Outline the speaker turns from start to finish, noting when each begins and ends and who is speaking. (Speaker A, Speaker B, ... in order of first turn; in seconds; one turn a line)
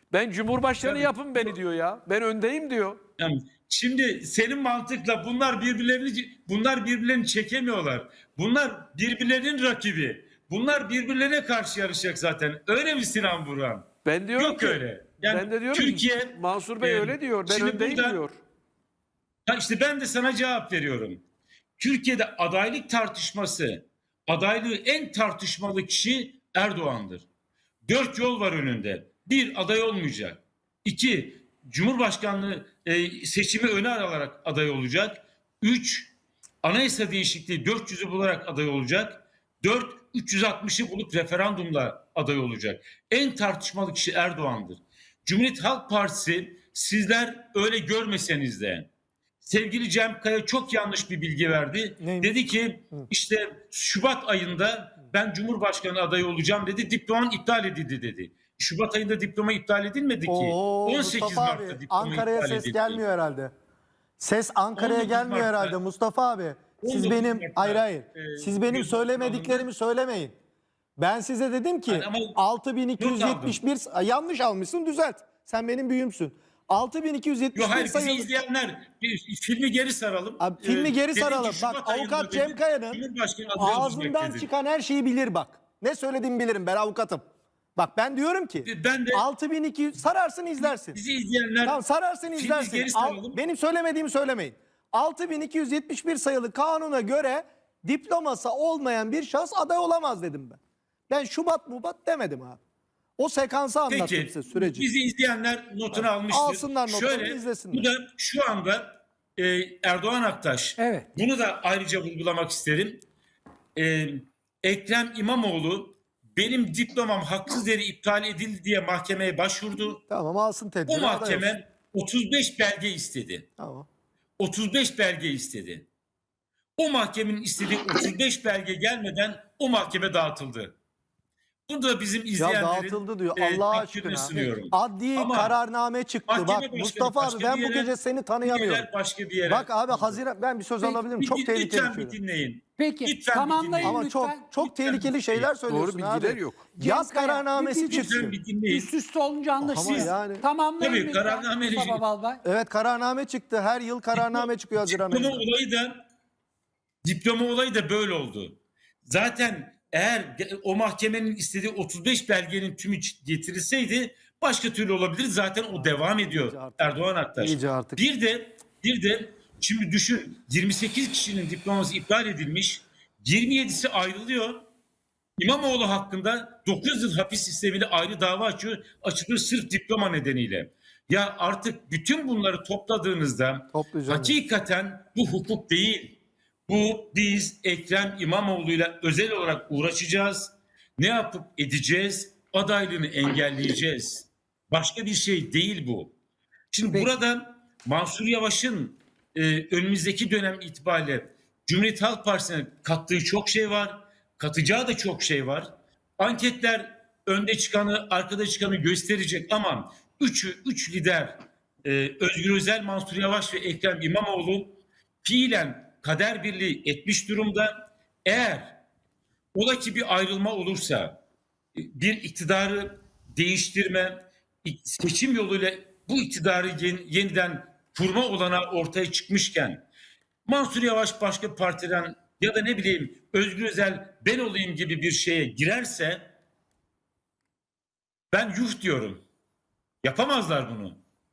Speaker A: 0.1-3.0
Speaker B: 0.8-1.6
Speaker B: 3.2-18.2
Speaker A: 14.1-18.4
Speaker B: 19.5-21.2
Speaker B: 21.8-27.3
Speaker B: 27.9-48.9
Speaker B: 49.4-63.0
Speaker C: 52.0-53.1
Speaker C: 60.3-63.5
Speaker C: 64.2-70.3
Speaker B: 64.8-65.8
Speaker B: 66.8-69.7
Speaker C: 71.0-78.3
Speaker B: 71.9-72.4
Speaker B: 73.0-73.6
Speaker B: 77.5-84.5
Speaker C: 80.4-83.0
Speaker C: 83.6-91.0
Speaker B: 88.7-89.2
Speaker B: 90.6-93.4
Speaker C: 91.6-102.6
Speaker C: 103.2-104.9
Speaker B: 103.9-113.0
Speaker C: 105.9-107.9
Speaker D: 110.8-111.1
Speaker B: 113.8-120.0
Speaker C: 120.1-121.6
Speaker B: 120.9-123.5
Speaker C: 123.6-123.9
Speaker B: 124.4-125.9
Speaker B: 126.8-130.8
Speaker B: 131.7-135.6
Speaker C: 132.4-138.9
Speaker B: 136.3-140.2
Speaker C: 139.4-142.2
Speaker B: 140.8-144.0
Speaker D: 142.8-144.5
Speaker C: 143.8-148.3
Speaker B: 144.6-145.3
Speaker A: 145.4-146.7
Speaker D: 146.8-148.2
Speaker B: 147.9-148.9
Speaker D: 148.7-152.4
Speaker C: 149.6-150.4
Speaker B: 149.8-150.1
Speaker B: 150.8-152.0
Speaker C: 152.4-155.4
Speaker B: 154.2-156.0
Speaker B: 157.0-174.7
Speaker C: 165.7-168.0
Speaker B: 175.4-196.2
Speaker C: 183.7-184.4
Speaker B: 196.7-217.7
Speaker B: 218.2-218.8
Speaker B: 219.6-221.2
Speaker B: 221.8-229.9
Speaker B: 230.5-236.3
Speaker B: 238.3-239.2
Speaker B: 240.0-241.0